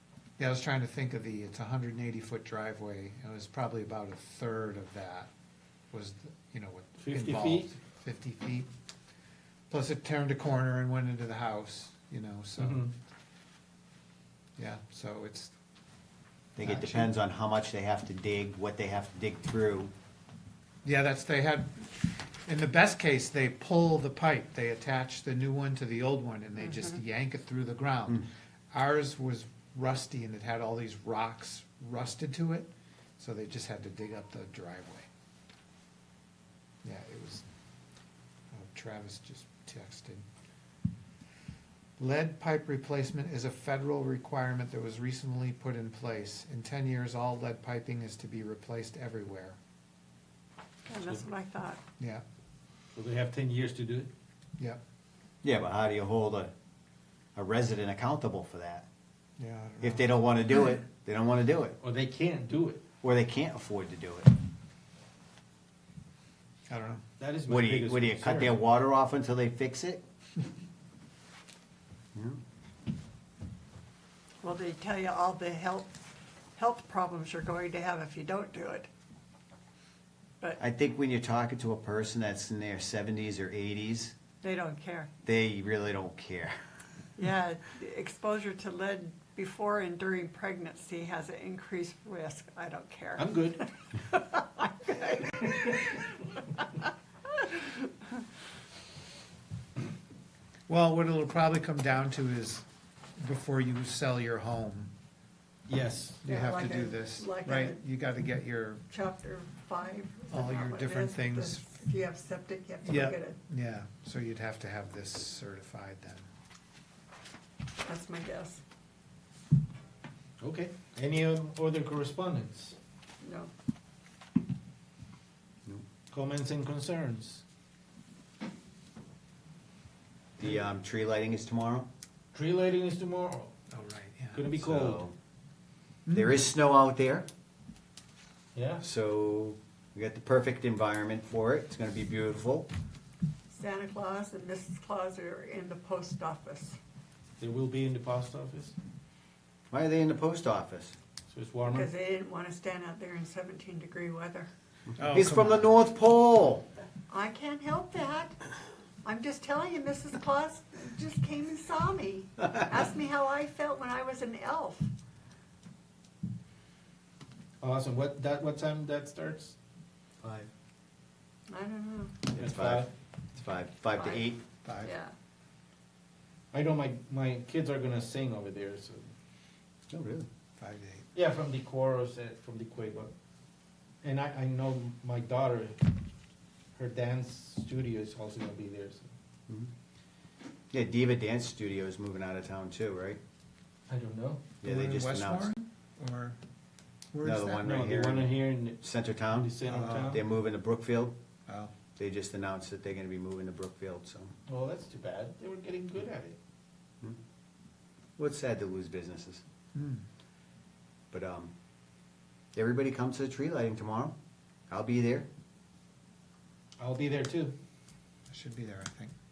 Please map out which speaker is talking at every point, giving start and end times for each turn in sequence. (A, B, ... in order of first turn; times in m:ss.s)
0:00.4-0:05.3 A
0:05.9-0:08.7 A
0:07.0-0:07.7 B
0:09.7-0:12.9 A
0:12.6-0:12.9 B
0:14.6-0:15.5 A
0:16.6-0:19.9 C
0:16.6-0:17.1 A
0:20.8-0:35.1 A
0:36.8-0:37.4 A
0:38.5-0:40.2 A
0:42.0-0:49.6 A
0:50.9-0:51.8 D
0:52.9-0:54.1 B
0:55.4-0:56.5 C
0:57.4-0:58.8 C
0:59.4-1:00.2 A
0:59.8-1:01.8 C
1:01.8-1:02.8 B
1:03.0-1:04.3 C
1:06.7-1:07.0 A
1:07.2-1:08.5 B
1:07.5-1:10.0 C
1:12.1-1:12.4 C
1:14.4-1:16.0 D
1:16.6-1:18.9 D
1:20.6-1:24.1 C
1:24.4-1:25.1 D
1:25.2-1:26.5 C
1:27.2-1:35.9 D
1:33.2-1:33.6 B
1:40.7-1:42.6 A
1:43.2-1:44.9 A
1:45.7-1:46.2 B
1:46.2-1:48.8 A
1:46.2-1:47.8 D
1:48.9-1:53.4 D
1:50.3-1:51.7 A
1:52.8-1:56.3 A
1:57.8-1:58.6 D
2:00.4-2:02.8 B
2:03.2-2:03.5 D
2:06.1-2:07.4 B
2:10.4-2:11.9 C
2:12.3-2:13.5 B
2:13.7-2:14.4 A
2:14.3-2:15.0 B
2:14.5-2:15.1 C
2:16.1-2:16.4 A
2:16.1-2:17.2 C
2:18.5-2:18.8 B
2:18.8-2:22.7 C
2:23.5-2:26.8 D
2:27.4-2:28.7 B
2:29.7-2:30.9 C
2:31.3-2:31.9 B
2:31.7-2:34.5 D
2:35.0-2:35.7 A
2:35.0-2:36.6 C
2:37.1-2:38.4 D
2:39.0-2:44.9 D
2:47.6-2:49.6 B
2:51.5-2:52.2 D
2:52.3-2:52.9 B
2:52.3-2:54.4 C
2:54.0-2:54.3 D
2:54.6-2:54.9 A
2:54.8-2:55.1 D
2:56.5-2:59.1 B
2:59.9-3:00.3 C
3:00.6-3:01.1 A
3:01.1-3:03.1 B
3:04.0-3:05.9 B
3:06.8-3:09.1 B
3:10.7-3:13.2 C
3:13.9-3:14.4 B
3:14.6-3:15.5 C
3:14.6-3:16.4 A
3:17.1-3:17.7 A
3:17.2-3:19.5 C
3:17.6-3:20.2 B
3:19.7-3:20.2 A
3:20.1-3:21.1 C
3:21.5-3:21.7 A
3:22.0-3:24.3 C
3:24.5-3:26.4 B
3:28.2-3:29.4 C
3:29.7-3:30.0 A
3:31.1-3:31.5 C
3:32.5-3:34.1 C
3:34.7-3:35.3 C
3:36.8-3:37.5 B
3:38.3-3:39.1 A